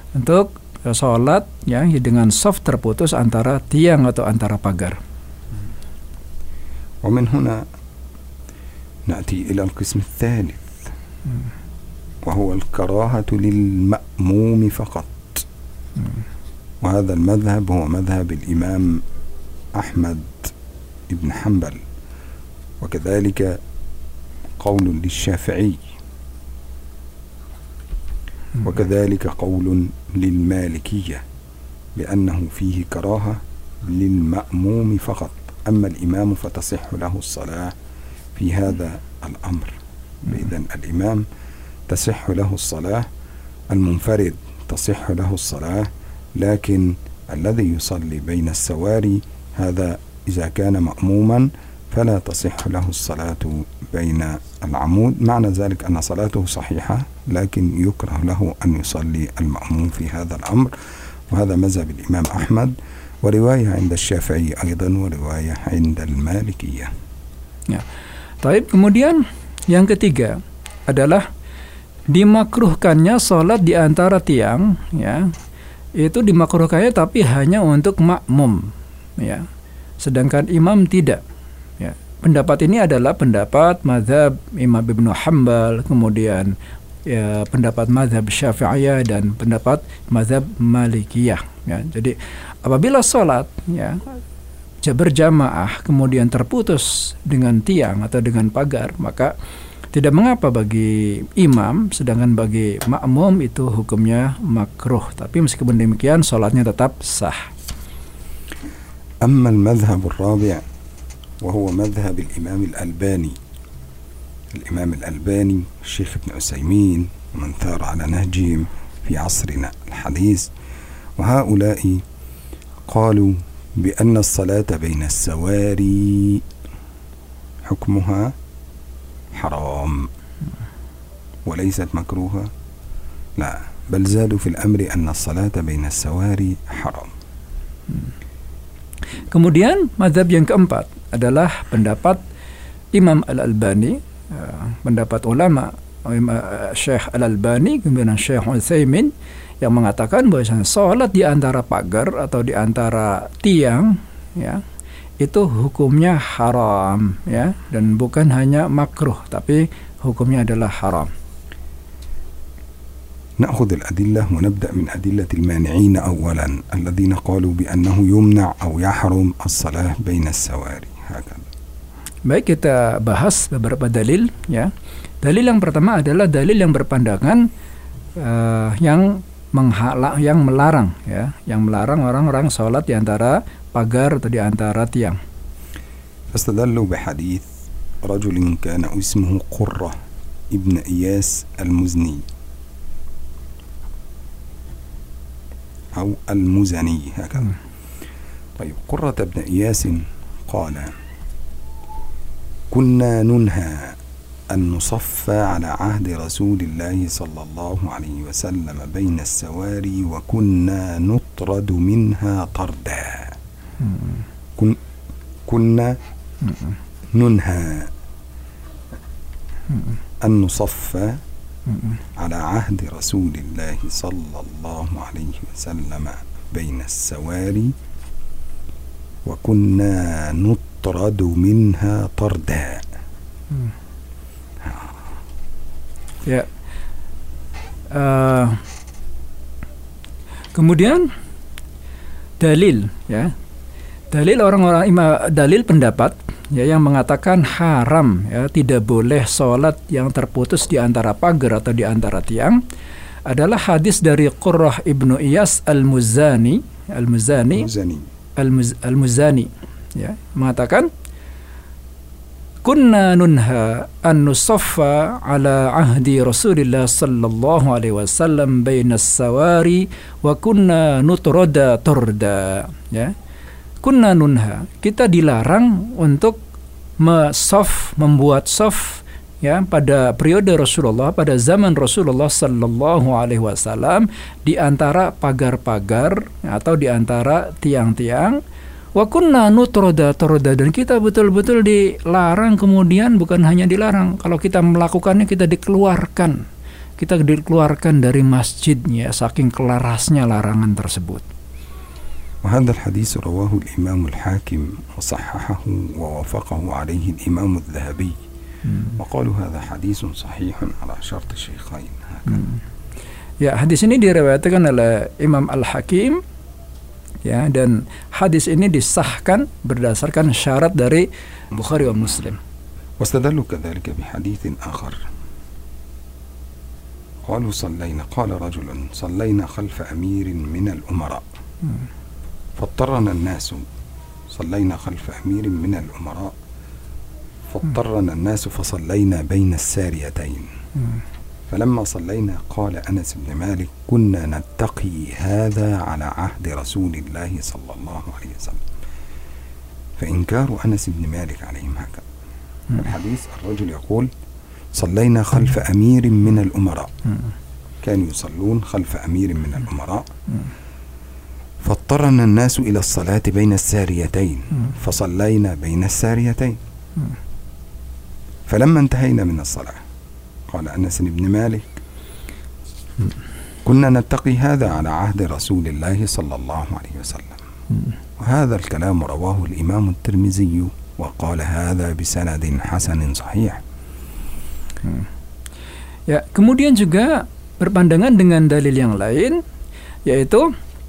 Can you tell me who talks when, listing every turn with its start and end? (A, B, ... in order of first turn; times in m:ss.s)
0:00.1-0:05.0 A
0:07.0-0:07.6 B
0:09.1-0:10.8 B
0:12.2-0:15.4 B
0:16.8-0:19.0 B
0:19.7-0:20.5 B
0:21.1-0:21.8 B
0:22.8-0:23.6 B
0:24.6-0:25.8 B
0:28.6-0:31.2 B
0:31.9-0:37.7 B
0:38.3-0:41.2 B
0:41.9-0:43.1 B
0:43.7-1:00.7 B
1:01.3-1:06.9 B
1:08.4-1:11.2 A
1:12.1-1:15.3 A
1:16.0-1:19.4 A
1:20.0-1:21.2 A
1:21.8-1:26.5 A
1:27.1-1:34.1 A
1:34.8-1:39.3 A
1:39.9-1:47.5 A
1:49.2-1:50.6 B
1:51.4-1:53.4 B
1:54.5-2:00.5 B
2:01.2-2:02.0 B
2:02.9-2:06.4 B
2:07.6-2:08.3 B
2:09.3-2:10.1 B
2:11.4-2:12.5 B
2:13.4-2:17.1 B
2:19.3-2:22.2 A
2:22.9-2:34.6 A
2:35.2-2:41.1 A
2:43.4-2:51.5 B
2:52.3-2:54.7 A
2:55.2-2:57.4 A
2:58.2-3:05.2 A
3:06.3-3:07.4 B
3:08.0-3:10.0 B
3:10.5-3:12.2 B
3:15.9-3:17.5 B
3:18.6-3:20.9 B
3:22.7-3:24.0 B
3:24.5-3:33.4 B
3:35.4-3:36.0 B
3:37.1-3:37.9 B
3:40.2-3:41.2 B
3:42.2-3:47.7 B
3:49.2-3:52.8 B
3:54.6-3:55.0 B
3:57.9-3:58.6 A
4:00.5-4:01.1 A
4:02.4-4:03.3 A
4:04.1-4:12.6 A
4:13.3-4:17.7 A
4:17.5-4:18.1 B
4:18.4-4:20.9 A
4:22.6-4:33.1 A
4:33.8-4:36.4 A
4:37.0-4:48.4 A
4:48.9-4:56.4 A
4:57.0-5:01.2 A
5:02.4-5:08.2 B
5:09.0-5:12.4 B
5:13.4-5:16.2 A
5:17.2-5:22.4 A
5:23.0-5:25.0 B
5:27.3-5:31.2 B
5:32.6-5:33.6 B
5:34.3-5:36.4 B
5:37.5-5:40.5 B
5:41.5-5:48.6 B
5:50.0-5:52.0 B
5:52.7-5:54.1 B
5:54.7-5:56.9 B
5:57.8-6:00.1 B
6:01.6-6:06.6 B
6:08.5-6:09.8 B
6:10.5-6:11.8 B
6:13.6-6:17.4 B
6:18.2-6:23.6 B
6:26.1-6:29.4 A
6:30.1-6:30.5 A